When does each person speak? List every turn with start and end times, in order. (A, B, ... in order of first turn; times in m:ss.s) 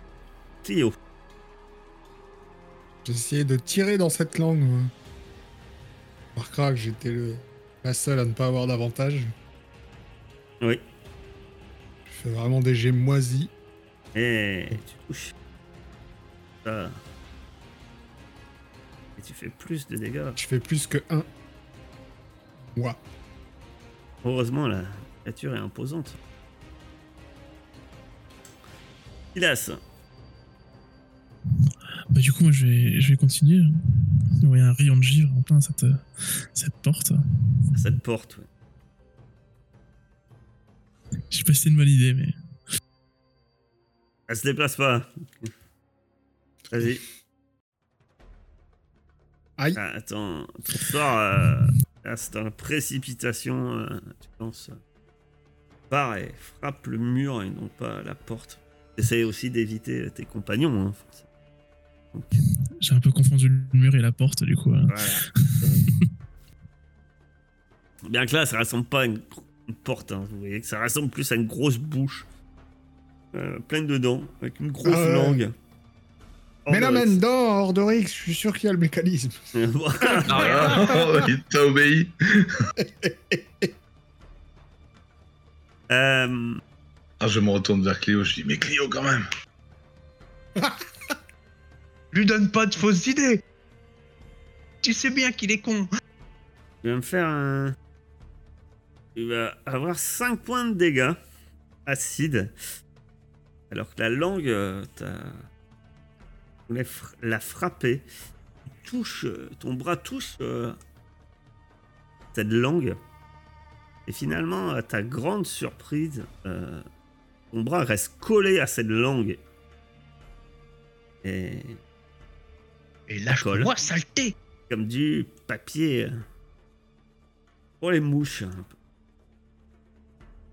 0:00.6-0:01.0 A
0:03.0-0:04.9 B
0:06.4-0:09.3 B
0:12.1-0:13.5 B
0:14.1-0:15.3 A
0:16.6-0:17.0 A
0:19.2-0:20.4 A
0:20.4-0:21.3 B
0:22.6-0:23.0 B
0:24.2-0:26.2 A
0:29.3-0:29.8 A
0:32.1-0:37.8 C
0:37.8-0:38.5 A
0:41.3-0:42.3 C
0:44.3-0:45.5 A
0:46.7-0:47.0 A
0:49.8-0:54.8 A
0:55.9-1:01.2 A
1:02.1-1:02.4 A
1:02.8-1:06.1 C
1:04.9-1:05.8 A
1:08.0-1:12.2 A
1:13.3-1:15.5 A
1:14.8-1:15.4 B
1:16.6-1:17.2 A
1:16.7-1:19.4 B
1:19.5-1:20.7 A
1:20.0-1:21.3 B
1:20.3-1:20.8 D
1:20.3-1:22.5 E
1:22.8-1:23.7 B
1:25.9-1:26.6 A
1:27.2-1:29.3 E
1:32.1-1:33.4 D
1:34.8-1:35.9 D
1:36.8-1:37.8 A
1:39.2-1:41.2 A
1:41.8-1:42.5 A
1:43.7-1:45.5 A
1:46.7-1:48.1 A
1:48.8-1:50.8 A
1:52.3-1:53.0 A
1:54.1-1:56.9 A
1:57.5-1:59.4 A
2:01.2-2:01.8 A
2:03.1-2:04.3 D
2:03.3-2:03.8 A
2:04.7-2:06.2 A
2:07.8-2:08.7 A